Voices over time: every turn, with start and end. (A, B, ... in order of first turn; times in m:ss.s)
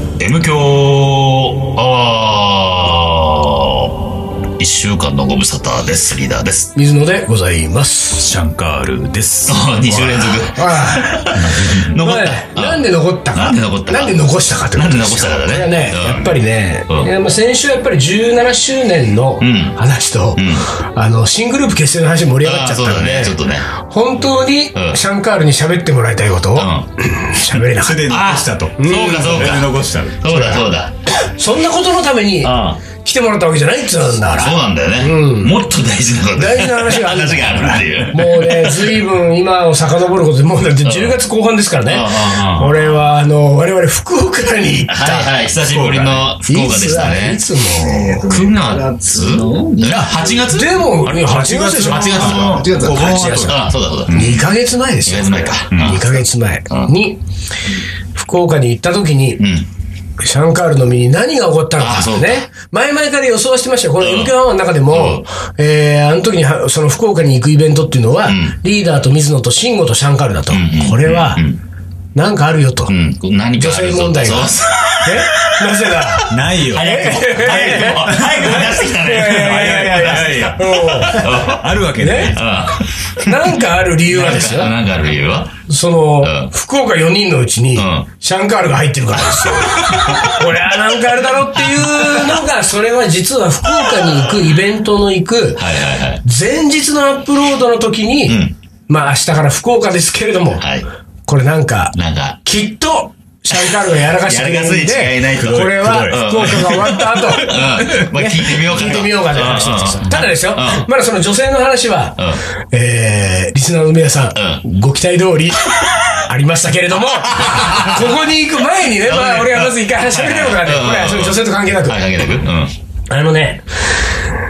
0:00.2-0:06.7 A
0:06.7-0:08.3 B
0:08.2-0:10.5 C
0:09.5-0:17.1 A
0:10.5-0:28.0 B
0:11.4-0:11.8 C
0:19.4-0:19.8 A
0:20.4-0:20.6 A
0:22.4-0:23.7 A
0:26.6-0:26.9 A
0:27.7-0:30.3 C
0:28.1-0:30.9 A
0:28.8-0:29.6 B
0:30.3-0:35.6 B
0:32.4-0:32.8 A
0:34.3-0:39.0 A
0:36.3-0:45.3 B
0:40.8-0:41.2 A
0:41.9-0:43.1 A
0:44.9-0:47.4 A
0:45.7-0:46.3 C
0:46.4-0:48.4 B
0:48.2-0:54.5 A
0:49.8-0:57.2 B
0:51.2-0:53.6 C
0:55.0-0:56.2 A
0:55.7-0:56.0 C
0:58.1-0:59.4 B
0:59.4-0:59.7 A
1:00.2-1:11.4 B
1:01.8-1:02.4 A
1:04.0-1:04.3 A
1:04.9-1:05.2 A
1:08.3-1:08.5 A
1:10.5-1:11.6 A
1:12.1-1:12.9 B
1:12.9-1:16.2 A
1:13.6-1:21.3 B
1:16.3-1:22.6 C
1:16.7-1:21.7 A
1:22.0-1:22.3 B
1:22.3-1:23.3 A
1:23.2-1:24.7 B
1:24.1-1:25.5 A
1:25.7-1:40.6 B
1:26.2-1:26.5 A
1:27.8-1:28.0 A
1:29.3-1:30.3 A
1:35.6-1:36.2 A
1:38.3-1:38.5 A
1:41.3-2:02.0 B
1:41.9-1:42.4 A
1:43.6-1:50.9 A
1:45.4-1:46.8 C
1:54.4-1:54.6 A
1:57.3-1:58.1 A
1:58.9-2:02.7 A
2:03.1-2:03.6 B